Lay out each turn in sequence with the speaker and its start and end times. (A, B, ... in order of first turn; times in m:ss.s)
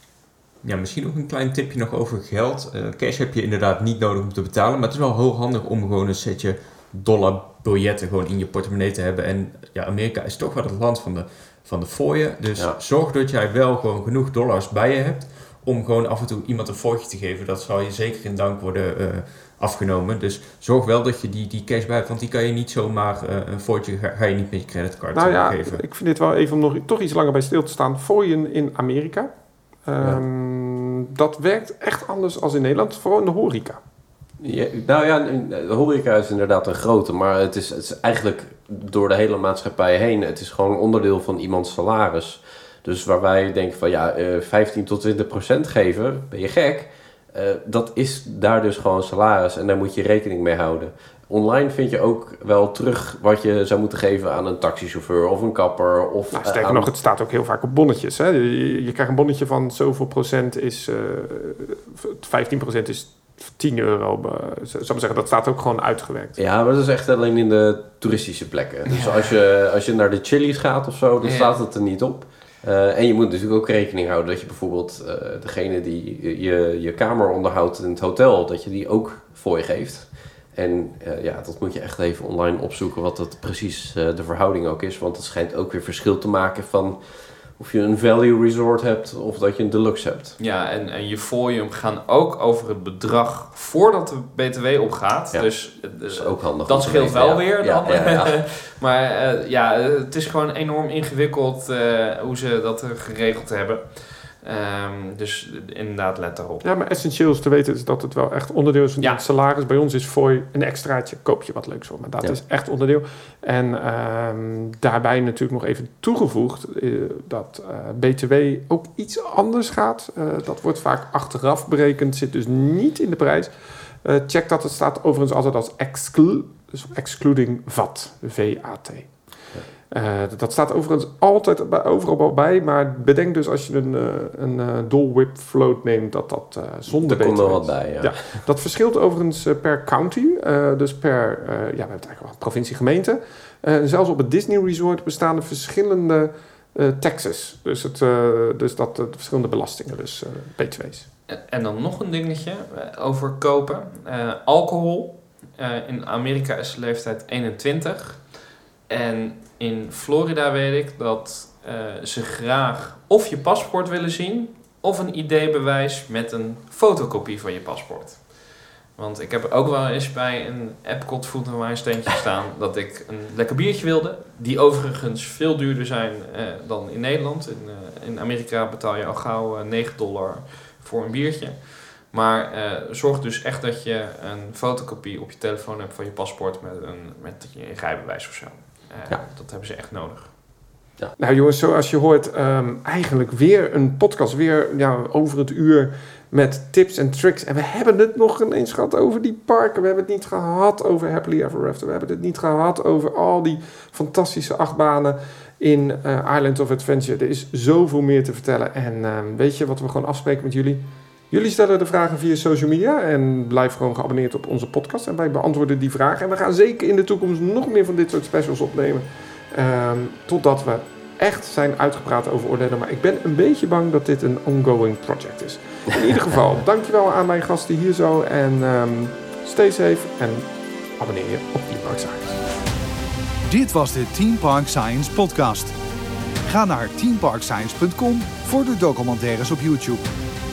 0:00.6-0:25.8 A
0:25.1-0:29.3 B
0:29.8-0:33.8 B
0:34.4-0:56.9 C
0:56.3-1:06.4 B
1:06.4-1:30.4 C
1:08.9-1:09.3 D
1:11.2-1:11.6 D
1:30.4-1:46.6 D
1:35.3-1:38.4 C
1:46.6-2:03.5 B
2:04.0-2:09.3 B
2:09.9-2:31.1 B
2:16.9-2:18.4 C
2:31.3-3:10.4 D
3:11.2-3:52.4 B
3:53.5-3:55.8 E
3:56.4-4:00.1 E